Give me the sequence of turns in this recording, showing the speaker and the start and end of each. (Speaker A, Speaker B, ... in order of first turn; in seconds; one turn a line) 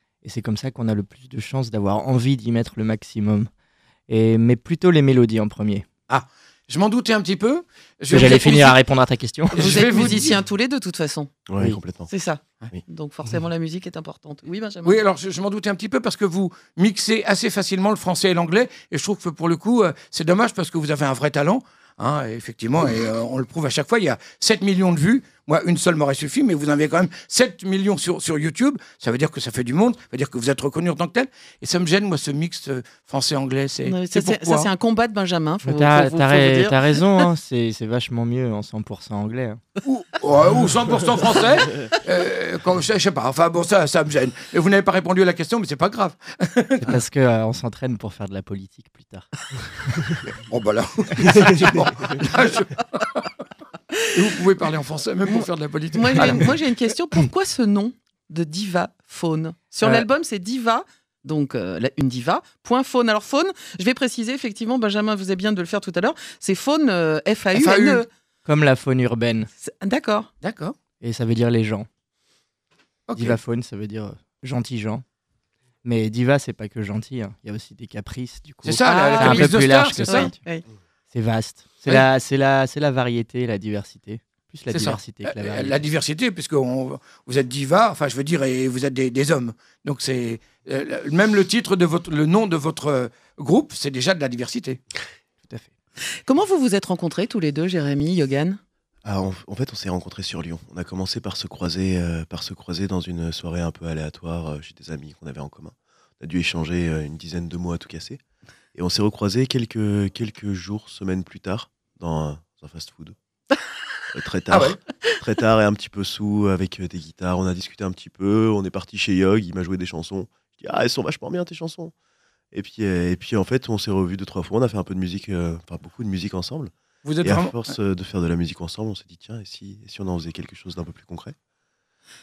Speaker A: 0.2-3.5
Speaker A: 4.1-5.8
Speaker B: 6.1-8.8
Speaker A: 8.1-9.8
Speaker B: 9.5-10.3
Speaker C: 9.6-11.3
Speaker D: 11.5-12.1
Speaker C: 12.1-15.0
Speaker B: 14.8-34.7
Speaker C: 33.8-37.2
Speaker A: 35.6-39.6
Speaker B: 39.8-47.0
Speaker A: 46.8-50.1
Speaker B: 50.2-53.3
Speaker B: 54.1-56.6
Speaker C: 55.2-68.1
Speaker B: 67.5-68.0
Speaker A: 68.4-69.5
Speaker C: 69.6-70.3
Speaker B: 70.4-70.7
Speaker A: 71.0-71.9
Speaker B: 73.1-73.4
Speaker A: 73.1-75.0
Speaker A: 75.8-80.4
Speaker B: 78.6-80.3
Speaker C: 78.8-80.7
Speaker A: 81.1-85.9
Speaker B: 84.7-94.8
Speaker A: 95.4-95.7
Speaker C: 96.2-98.6
Speaker D: 99.0-108.2
Speaker D: 108.7-113.1
Speaker D: 114.1-121.9
Speaker B: 114.5-114.8
Speaker D: 122.5-131.3
Speaker B: 127.0-127.7